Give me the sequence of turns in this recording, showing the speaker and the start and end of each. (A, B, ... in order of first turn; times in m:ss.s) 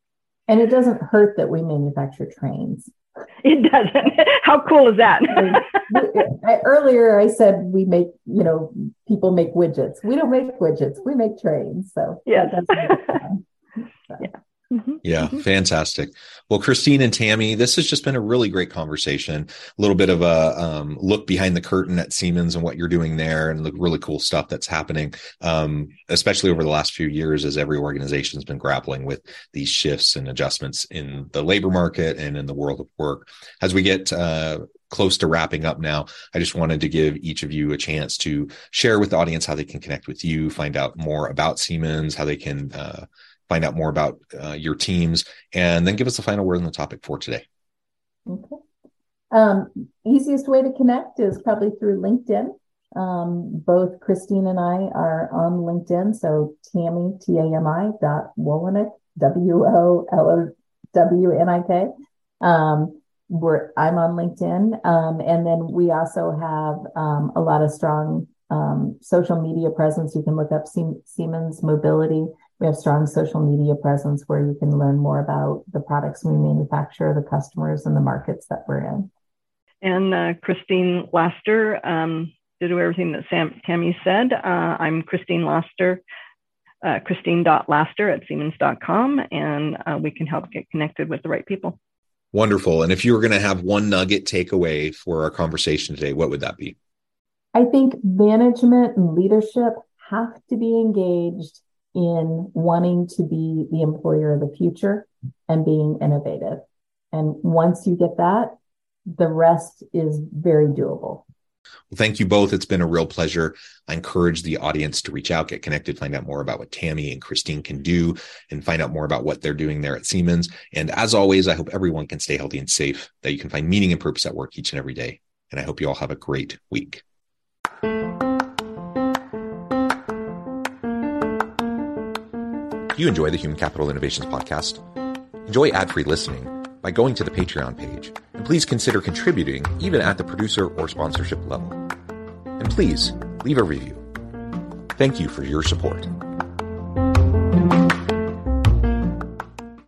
0:00.5-0:02.9 A
0:03.4-0:05.8 B
0:05.3-0:13.4 A
0:12.3-0:13.2 B
0:14.2-0:15.4 B
0:15.0-0:47.4 C
0:48.3-0:48.6 A
0:49.3-1:01.9 A
1:02.4-1:19.1 A
1:19.8-1:26.0 B
1:26.8-1:31.8 B
1:32.3-1:36.8 C
1:37.5-1:48.6 A
1:49.1-1:51.3 A
1:51.9-2:07.0 C
2:12.9-2:14.8 C
2:15.5-2:21.8 C
2:22.6-2:24.1 C
2:25.0-2:26.1 C